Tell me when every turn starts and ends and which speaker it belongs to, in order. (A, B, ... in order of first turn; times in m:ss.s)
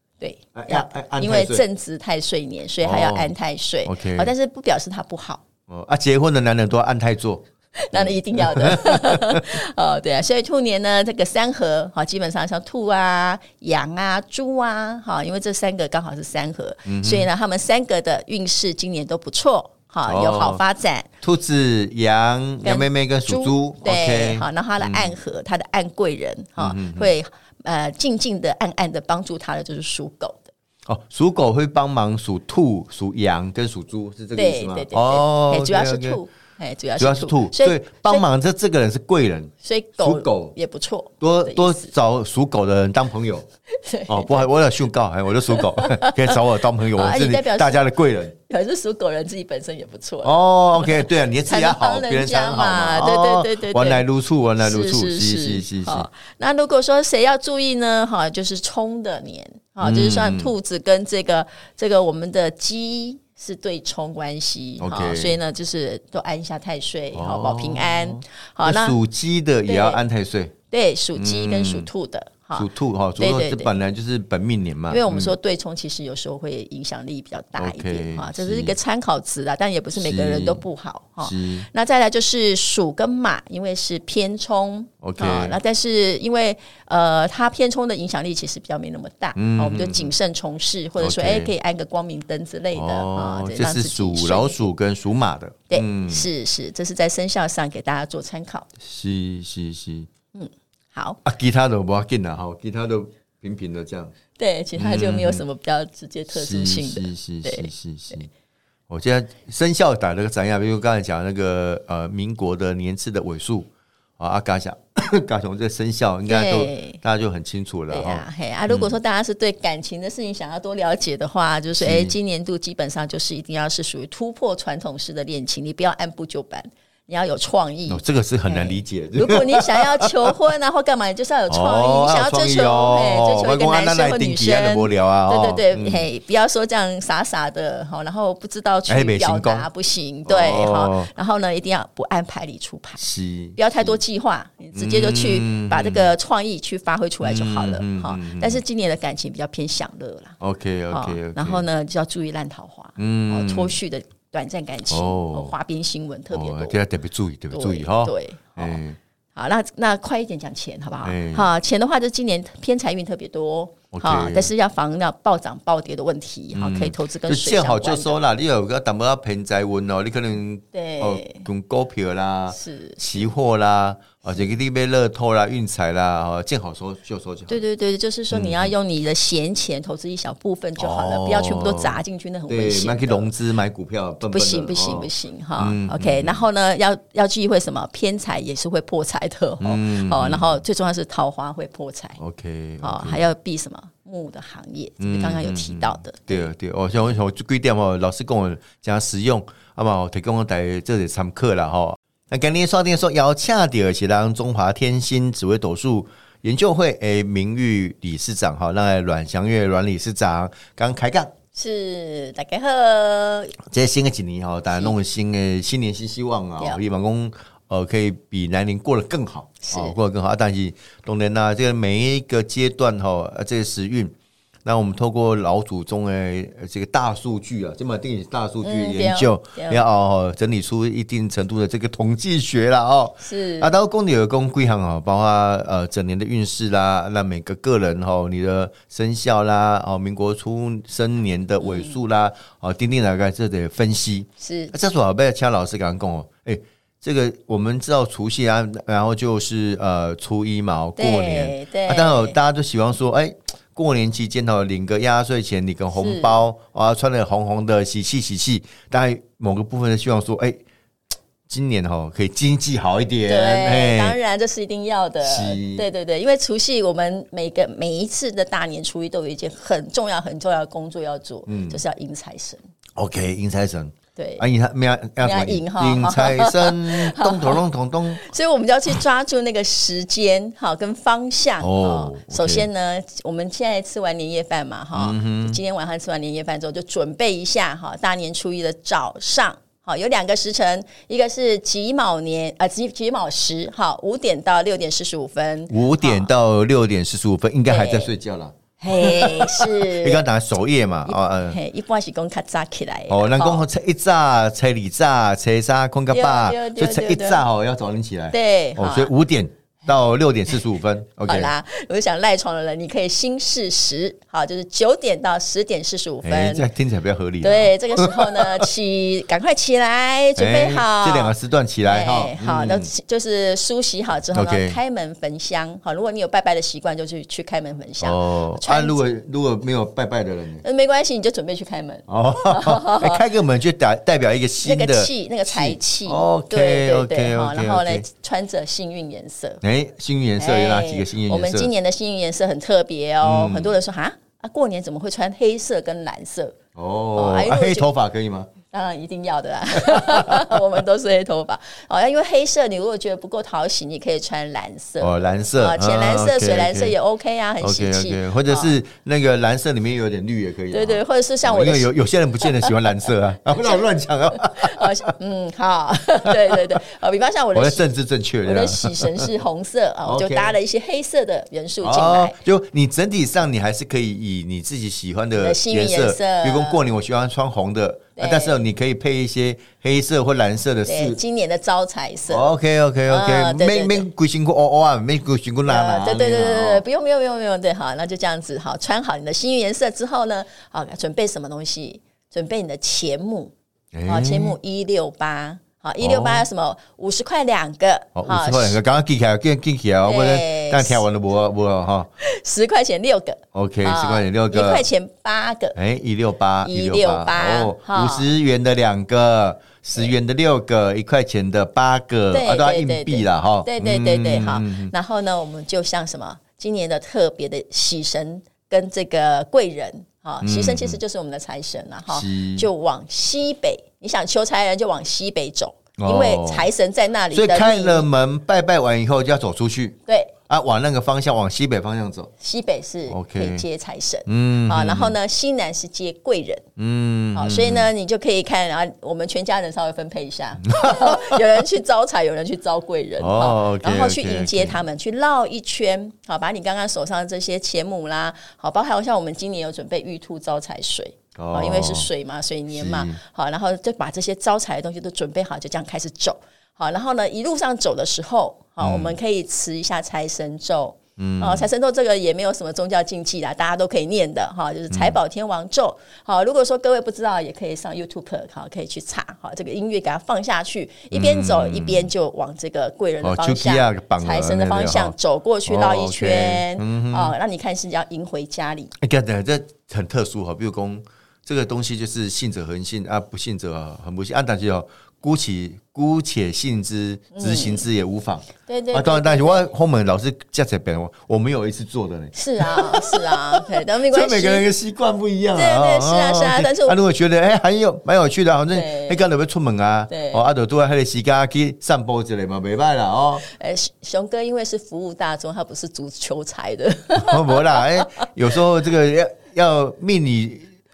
0:00.2-0:05.4 A
0:00.5-0:01.6 B
0:02.8-0:03.3 B
0:03.8-0:04.3 B
0:05.7-0:09.6 B
0:07.8-0:21.1 A
0:16.9-0:17.3 B
0:20.1-0:20.6 B
0:21.2-0:25.1 B
0:22.6-0:30.5 A
0:26.6-0:27.1 B
0:30.9-0:36.2 B
0:34.4-0:38.2 A
0:37.0-0:40.5 B
0:39.6-0:41.9 A
0:41.2-0:43.5 B
0:43.7-0:44.5 A
0:44.1-0:48.3 B
0:45.5-0:54.0 A
0:50.2-0:56.1 B
0:54.6-1:09.0 A
0:59.8-1:00.5 B
1:04.8-1:05.4 B
1:07.1-1:10.5 B
1:09.6-1:10.0 A
1:10.7-1:13.7 A
1:11.1-1:11.9 B
1:12.5-1:15.3 B
1:14.9-1:34.7 A
1:17.6-1:18.8 B
1:20.0-1:20.6 B
1:21.2-1:21.7 B
1:25.0-1:25.6 B
1:29.4-1:30.1 B
1:31.0-1:31.5 B
1:32.7-1:36.3 B
1:35.7-1:38.7 A
1:38.8-1:40.1 B
1:40.3-1:41.2 A
1:41.2-1:44.1 B
1:44.4-1:47.7 A
1:44.8-1:45.4 B
1:46.3-1:48.3 B
1:48.9-1:58.9 B
1:56.3-1:57.0 A
1:57.9-2:23.0 A
2:01.8-2:02.1 B
2:07.9-2:10.4 B
2:11.5-2:16.0 B
2:18.9-2:19.7 B
2:20.3-2:21.1 B
2:23.0-2:24.0 B
2:23.6-2:30.4 A
2:24.8-2:26.1 B
2:27.2-2:28.6 B
2:30.4-2:31.6 B
2:30.9-2:36.8 A
2:33.0-2:33.8 B
2:34.9-2:35.5 B
2:36.3-2:39.0 B
2:37.5-2:38.8 A
2:39.4-2:48.2 A
2:41.0-2:41.5 B
2:43.9-2:44.5 B
2:46.5-2:57.6 B
2:50.7-2:51.4 A
2:52.5-2:53.3 A
2:57.5-3:03.3 A
2:58.3-2:58.7 B
3:00.8-3:06.4 B
3:04.2-3:12.2 A
3:09.6-3:10.6 B
3:12.2-3:13.3 B
3:12.8-3:16.5 A
3:15.0-3:31.3 B
3:31.5-3:33.6 A
3:33.6-3:44.1 B
3:39.6-3:40.0 A
3:44.6-4:20.6 B
3:48.6-3:49.8 A
3:53.2-3:53.7 A
4:01.6-4:02.0 A
4:04.4-4:04.7 A
4:11.0-4:12.4 A
4:15.9-4:16.4 A
4:21.5-4:24.2 B
4:23.3-4:32.6 A
4:25.2-4:25.8 B
4:31.5-4:31.8 B
4:33.0-4:38.2 B
4:34.2-4:34.4 A
4:35.2-4:37.6 A
4:38.2-4:56.3 A
4:41.6-4:42.7 B
4:44.9-4:45.6 B
4:55.7-5:01.6 B
4:57.7-4:58.1 A
4:58.8-5:00.3 A
5:01.1-5:03.6 A
5:03.1-5:11.5 B
5:06.1-5:07.4 A
5:08.3-5:09.1 A
5:11.3-5:16.7 A
5:16.2-5:18.7 B
5:17.4-5:29.0 A
5:20.4-5:22.9 B
5:24.3-5:24.8 B
5:28.0-5:30.6 B
5:30.6-5:33.2 A
5:32.1-5:38.1 B
5:34.6-5:39.6 A
5:39.6-5:41.7 B
5:40.4-5:46.6 A
5:43.2-5:43.7 B
5:46.8-5:48.5 B
5:47.1-5:47.9 A
5:48.6-5:58.7 A
5:49.8-5:50.6 B
5:55.0-5:56.9 B
5:57.6-6:05.1 B
6:00.7-6:01.9 A
6:02.4-6:07.9 A
6:06.3-6:06.8 B
6:07.5-6:09.3 B
6:08.4-6:12.4 A
6:10.0-6:10.6 B
6:11.8-6:21.2 B
6:15.4-6:16.8 A
6:18.2-6:18.6 A
6:20.9-6:22.5 A
6:22.3-6:26.8 B
6:23.1-6:24.1 A
6:25.6-6:33.5 A
6:33.9-6:34.6 B
6:34.1-6:38.8 A
6:36.0-6:36.4 B
6:38.2-6:42.1 B
6:40.0-6:41.0 A
6:42.2-6:45.8 A
6:43.5-6:44.9 B
6:45.8-6:54.9 B
6:46.6-6:48.3 A
6:52.3-7:08.1 A
7:00.4-7:01.0 B
7:02.1-7:02.7 B
7:06.0-7:06.7 B
7:07.3-7:12.3 B
7:10.1-7:10.3 A
7:12.4-7:16.6 A
7:13.1-7:13.6 B
7:14.3-7:15.1 B
7:16.8-7:17.9 B
7:17.3-7:58.9 A
7:20.6-7:21.4 B
7:23.2-7:24.8 B
7:31.4-7:32.1 B
7:32.7-7:33.2 B
7:38.8-7:39.2 B
7:41.2-7:41.7 B
7:44.9-7:45.2 B
7:51.1-7:52.1 B
7:53.2-7:55.1 B
7:55.6-7:57.3 B
7:59.0-8:23.4 B
8:07.3-8:07.8 A
8:08.6-8:09.7 A
8:12.3-8:14.6 A
8:15.5-8:17.0 A
8:18.7-8:19.2 A
8:20.1-8:20.4 A
8:23.4-8:28.2 A
8:27.1-8:30.7 B